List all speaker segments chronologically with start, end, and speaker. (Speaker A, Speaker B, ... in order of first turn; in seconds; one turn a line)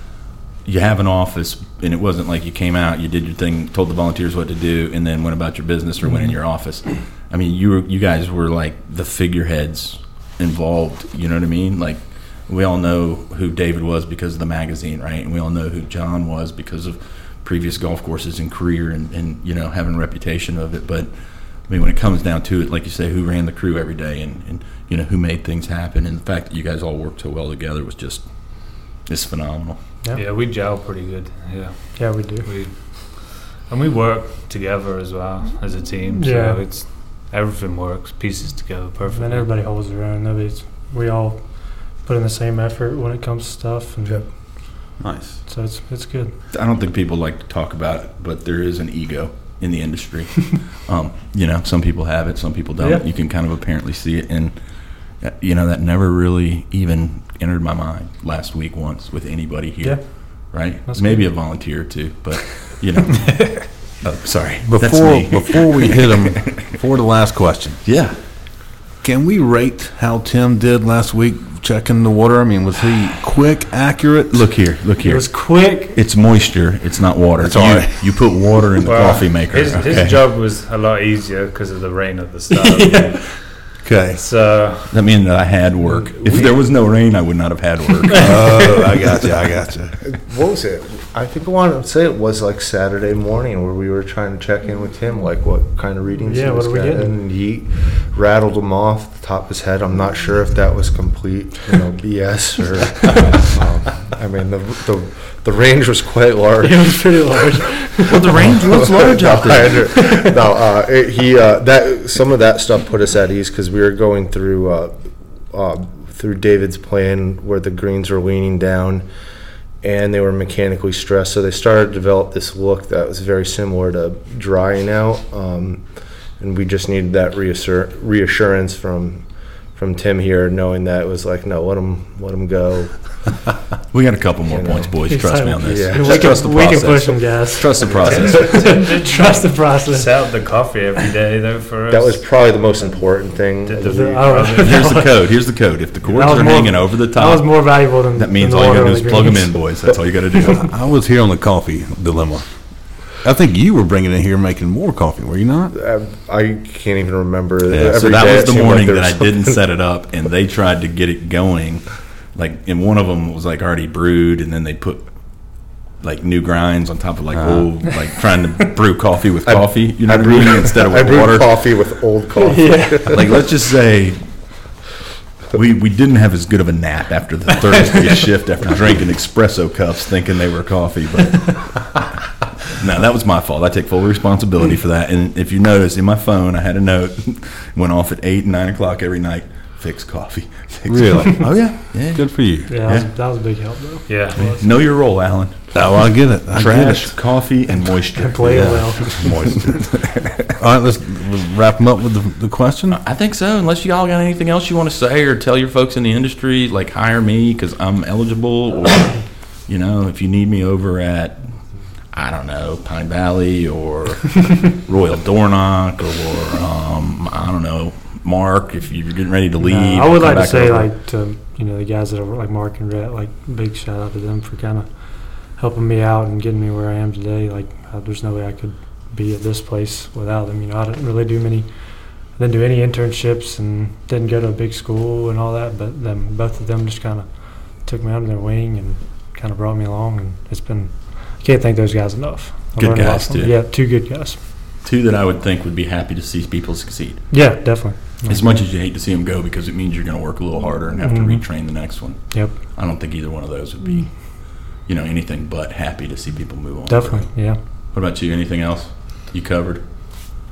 Speaker A: 0.6-21.1
Speaker A: 21.7-29.8
Speaker B: 30.1-39.5
Speaker C: 31.9-32.5
Speaker C: 36.1-36.6
Speaker C: 39.1-44.3
Speaker D: 45.0-45.4
Speaker C: 45.5-46.3
Speaker A: 46.5-54.5
Speaker A: 55.2-66.6
Speaker C: 60.9-61.3
Speaker D: 64.6-67.8
Speaker A: 67.8-68.1
Speaker D: 69.0-74.4
Speaker A: 74.3-80.2
Speaker C: 75.0-76.0
Speaker D: 77.4-78.1
Speaker B: 78.8-85.0
Speaker C: 82.5-83.2
Speaker D: 83.8-84.2
Speaker A: 84.9-88.3
Speaker D: 88.1-90.0
Speaker E: 90.1-107.2
Speaker C: 96.3-97.1
Speaker C: 106.6-108.3
Speaker A: 108.0-109.9
Speaker E: 108.7-115.0
Speaker C: 109.9-110.3
Speaker E: 115.5-119.0
Speaker E: 119.8-125.8
Speaker E: 126.4-133.2
Speaker A: 133.9-138.6
Speaker E: 134.5-134.9
Speaker C: 135.1-140.1
Speaker E: 135.6-136.3
Speaker B: 137.8-142.2
Speaker E: 141.9-144.3
Speaker B: 143.6-145.0
Speaker C: 143.8-145.2
Speaker A: 144.6-150.7
Speaker C: 146.1-149.7
Speaker D: 150.6-152.5
Speaker D: 153.0-155.7
Speaker E: 155.7-159.6
Speaker D: 157.7-158.1
Speaker A: 157.9-165.1
Speaker A: 166.0-171.6
Speaker D: 167.3-167.7
Speaker E: 169.4-173.3
Speaker C: 172.4-173.2
Speaker A: 173.1-174.2
Speaker A: 175.5-182.0
Speaker A: 182.7-193.1
Speaker D: 190.9-191.6
Speaker D: 192.1-192.7
Speaker C: 192.7-194.7
Speaker B: 194.1-194.4
Speaker A: 194.4-195.9
Speaker D: 195.7-197.1
Speaker A: 196.5-200.5
Speaker C: 198.1-199.3
Speaker D: 198.5-203.0
Speaker A: 202.9-211.4
Speaker A: 212.1-220.9
Speaker C: 219.6-231.7
Speaker C: 232.3-244.4
Speaker A: 242.7-243.6
Speaker A: 244.8-247.3
Speaker C: 247.3-248.5
Speaker A: 248.3-257.3
Speaker C: 251.0-251.5
Speaker C: 252.3-252.6
Speaker C: 256.9-257.6
Speaker A: 257.9-259.8